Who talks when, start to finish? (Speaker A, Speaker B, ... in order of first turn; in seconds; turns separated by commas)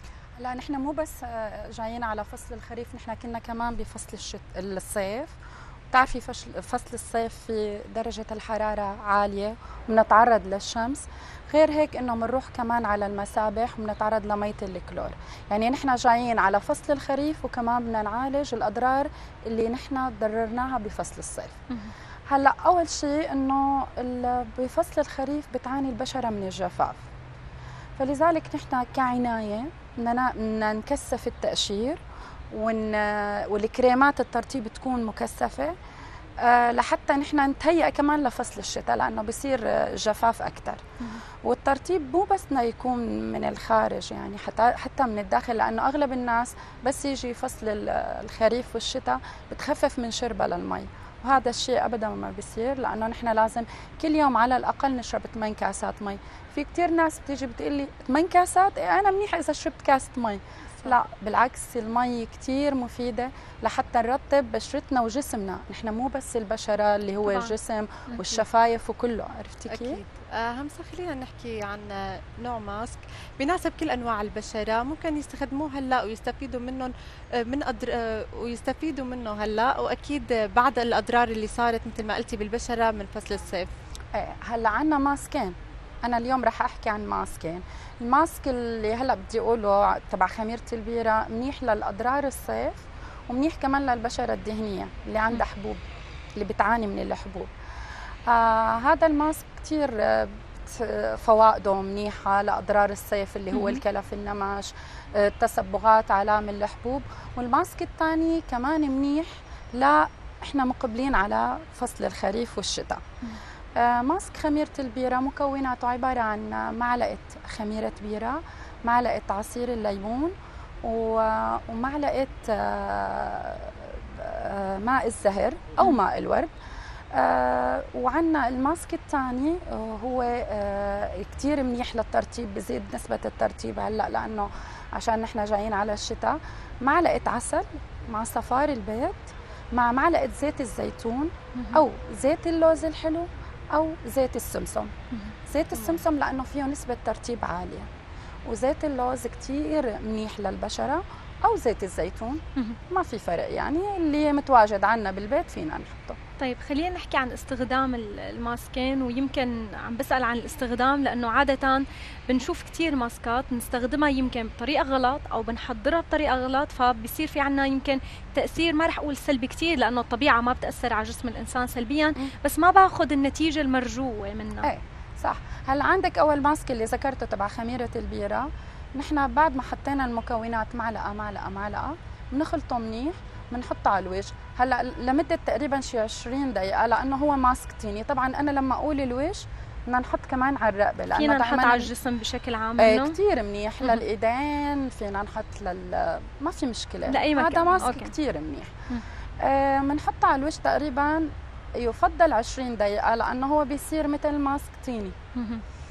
Speaker A: 0.4-5.3, Speaker A: 5.9-21.6, Speaker A: 22.3-27.0, Speaker A: 28.0-35.7, Speaker A: 36.4-40.8, Speaker A: 41.4-70.0, Speaker B: 67.2-67.5, Speaker B: 68.1-68.4, Speaker C: 69.7-83.7, Speaker A: 84.1-95.8, Speaker A: 96.4-97.5, Speaker A: 98.3-113.0, Speaker B: 103.5-103.8, Speaker A: 113.8-126.5, Speaker A: 127.1-144.9, Speaker B: 141.6-141.8, Speaker B: 145.1-146.0, Speaker A: 145.5-147.9, Speaker A: 148.4-156.2, Speaker B: 156.4-174.7, Speaker A: 174.6-191.9, Speaker B: 191.1-193.2, Speaker A: 192.8-198.7, Speaker B: 197.1-198.1, Speaker A: 199.4-205.1, Speaker B: 205.3-205.6